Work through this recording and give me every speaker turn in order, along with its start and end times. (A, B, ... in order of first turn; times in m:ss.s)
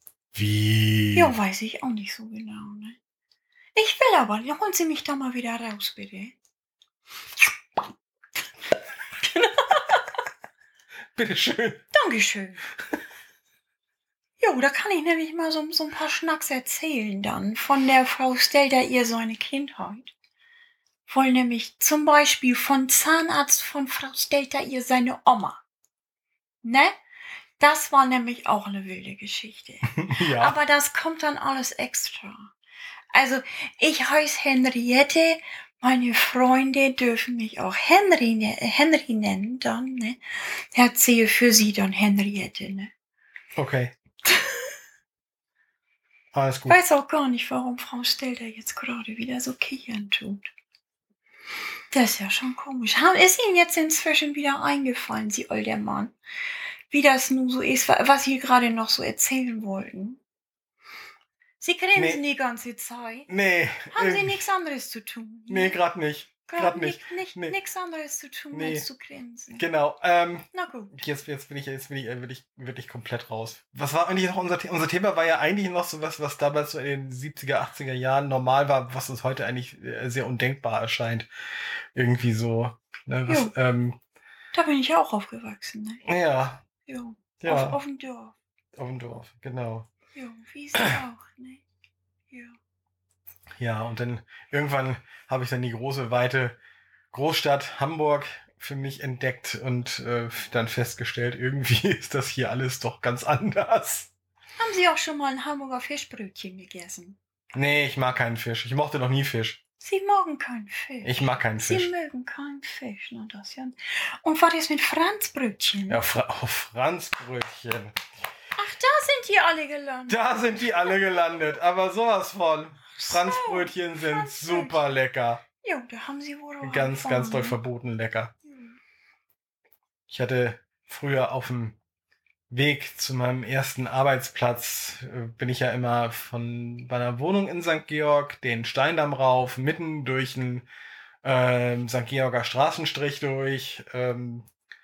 0:00.3-0:01.4 A
0:01.1-0:03.0 B
0:03.7-0:06.4 B
0:09.2-0:10.1 B
0:11.1-0:11.9 A
0:11.9-0:12.6 B
0:14.4-0:20.1 B
0:21.1-0:25.6 B
0:26.6-0:27.0 B
0:27.6-0:32.5 B
0:29.9-0:30.6 A
0:33.1-0:42.9 B
0:43.5-0:43.9 A
0:44.3-0:44.6 B
0:46.3-0:46.8 A
0:46.7-0:50.5 B
0:51.9-0:56.1 B
0:56.9-1:00.2 B
1:01.6-1:03.3 B
1:02.0-1:02.2 A
1:03.3-1:04.4 A
1:03.9-1:05.8 B
1:05.5-1:07.6 A
1:06.5-1:09.6 B
1:08.5-1:08.8 A
1:09.6-1:21.3 A
1:10.5-1:10.9 B
1:21.9-1:24.0 A
1:23.3-1:23.5 B
1:24.5-1:26.0 B
1:26.0-1:26.6 A
1:26.9-1:28.3 B
1:27.4-1:27.8 A
1:28.8-1:29.9 A
1:30.1-1:31.6 B
1:32.3-1:32.6 B
1:33.6-1:36.6 A
1:37.1-1:44.1 A
1:44.6-1:47.2 B
1:47.5-1:49.6 A
1:49.8-1:56.0 B
1:51.0-1:51.9 A
1:55.9-1:58.0 A
1:58.6-2:01.0 B
2:00.1-2:05.4 A
2:02.9-2:04.8 B
2:05.6-2:07.6 B
2:06.6-2:08.3 A
2:10.1-2:11.8 A
2:12.5-2:20.6 A
2:21.2-2:24.5 A